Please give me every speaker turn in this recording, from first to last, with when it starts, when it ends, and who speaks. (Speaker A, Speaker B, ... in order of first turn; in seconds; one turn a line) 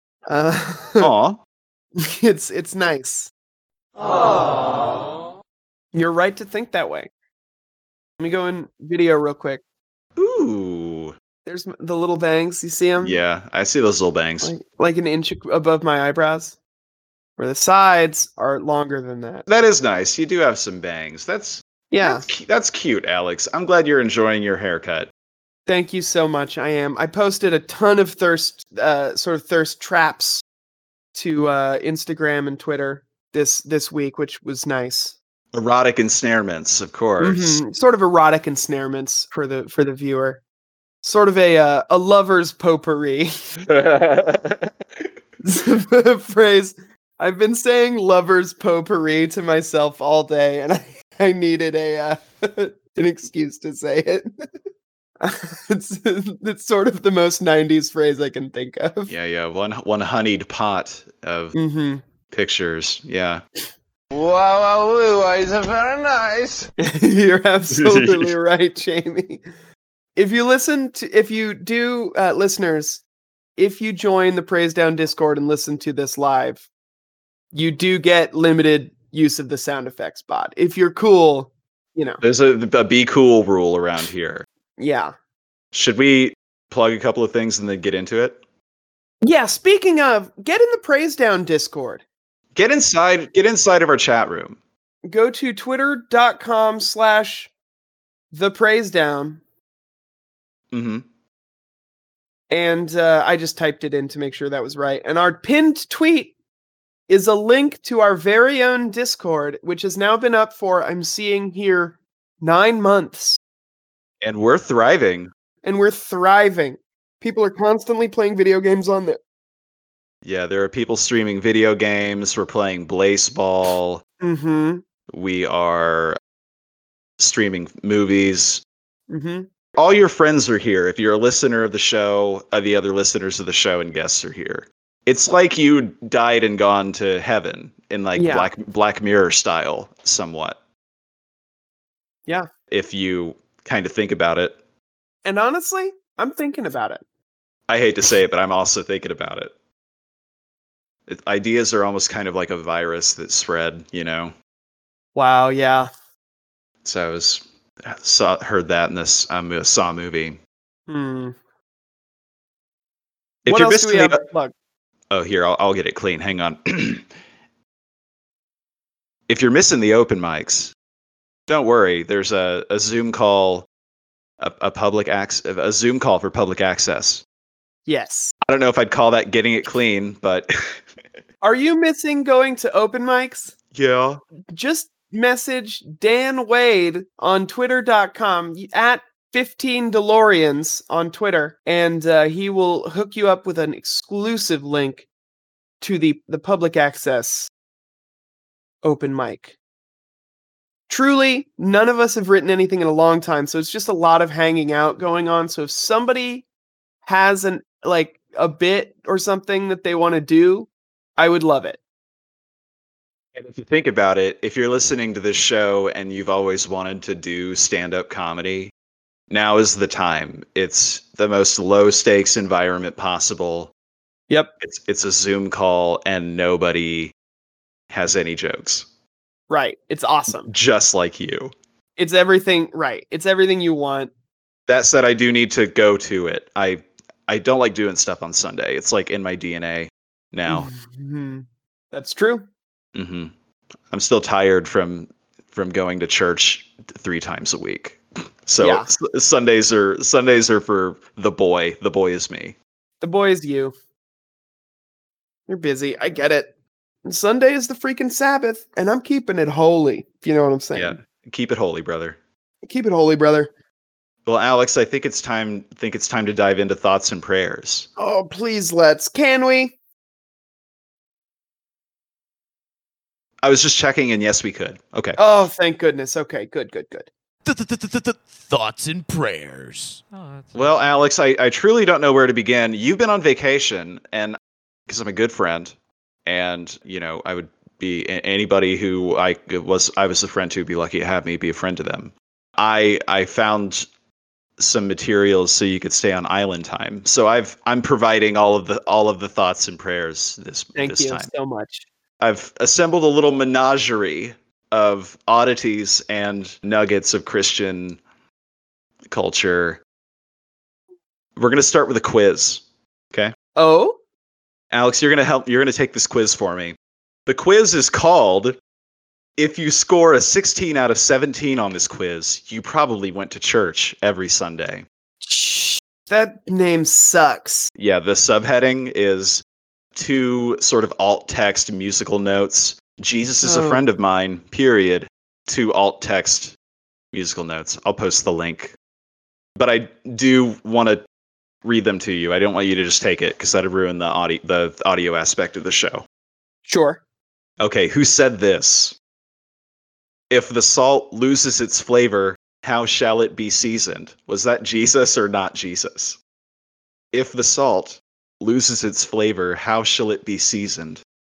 Speaker A: 0.3-1.1
Speaker B: 1.0-1.4
Speaker A: 2.0-3.3
Speaker A: 5.9-7.1
Speaker A: 8.2-9.6
Speaker B: 10.2-11.1
Speaker A: 11.4-13.2
Speaker B: 13.0-14.5
Speaker A: 14.4-16.6
Speaker A: 17.4-19.4
Speaker B: 19.5-25.1
Speaker A: 21.9-22.2
Speaker A: 25.7-30.4
Speaker A: 31.1-35.1
Speaker B: 35.5-37.6
Speaker A: 37.2-40.4
Speaker A: 41.0-43.3
Speaker B: 43.6-44.7
Speaker A: 45.4-54.3
Speaker A: 55.2-59.1
Speaker B: 59.1-61.5
Speaker A: 61.5-62.0
Speaker B: 62.3-63.4
Speaker C: 64.1-66.7
Speaker A: 66.8-69.4
Speaker B: 67.7-68.3
Speaker A: 70.2-73.0
Speaker A: 73.6-76.7
Speaker A: 77.5-82.2
Speaker B: 82.2-84.4
Speaker A: 84.8-85.1
Speaker B: 85.7-88.4
Speaker A: 89.2-92.0
Speaker B: 92.5-94.6
Speaker A: 95.0-97.5
Speaker A: 98.3-99.4
Speaker B: 100.7-101.0
Speaker A: 102.5-106.3
Speaker A: 107.1-113.4
Speaker B: 114.2-115.3
Speaker A: 115.6-119.2
Speaker B: 120.2-124.0
Speaker A: 124.2-124.8
Speaker B: 125.1-126.2
Speaker B: 127.2-128.6
Speaker A: 129.1-129.5
Speaker B: 129.8-140.6
Speaker A: 138.2-138.5
Speaker B: 142.7-144.6
Speaker A: 145.2-147.0
Speaker B: 147.7-149.5
Speaker B: 151.1-154.3
Speaker A: 155.1-155.9
Speaker B: 156.8-160.4
Speaker A: 160.9-161.3
Speaker B: 163.4-164.2
Speaker A: 163.4-164.5
Speaker B: 165.1-167.1
Speaker B: 169.3-170.7
Speaker B: 171.5-173.7
Speaker B: 174.4-177.2
Speaker A: 177.9-178.3
Speaker B: 178.4-180.8
Speaker A: 181.4-183.5
Speaker B: 183.7-184.2
Speaker A: 184.5-195.1
Speaker A: 195.8-197.5
Speaker A: 198.8-199.5
Speaker A: 200.9-206.4
Speaker A: 207.0-211.8
Speaker B: 213.3-218.7
Speaker B: 219.3-223.7
Speaker B: 224.6-227.1
Speaker B: 227.9-228.8
Speaker A: 229.5-230.5
Speaker B: 230.4-231.5
Speaker A: 232.0-234.1
Speaker B: 234.7-240.7
Speaker A: 240.5-242.4
Speaker B: 242.9-243.3
Speaker B: 243.9-252.6
Speaker A: 248.6-248.9
Speaker A: 253.0-253.7
Speaker A: 255.5-256.5
Speaker A: 257.0-261.0
Speaker B: 260.7-262.2
Speaker A: 262.6-263.5
Speaker B: 264.2-267.9
Speaker A: 268.0-269.7
Speaker B: 273.4-275.2
Speaker A: 275.2-277.1
Speaker D: 277.5-280.0
Speaker B: 280.5-284.4
Speaker B: 284.9-285.7
Speaker B: 286.2-293.9
Speaker B: 294.6-301.3
Speaker A: 300.8-301.9
Speaker B: 302.2-308.0
Speaker B: 309.1-309.8
Speaker B: 311.4-313.3
Speaker A: 313.6-314.0
Speaker B: 314.7-316.8
Speaker B: 317.3-318.6
Speaker B: 319.4-324.8
Speaker A: 325.2-327.7
Speaker B: 327.8-329.4
Speaker B: 329.9-336.5
Speaker A: 333.4-333.8
Speaker B: 337.1-338.7
Speaker B: 339.6-341.0
Speaker B: 341.6-346.0
Speaker A: 346.6-347.0
Speaker B: 347.6-348.9
Speaker B: 350.3-356.2
Speaker B: 357.1-361.0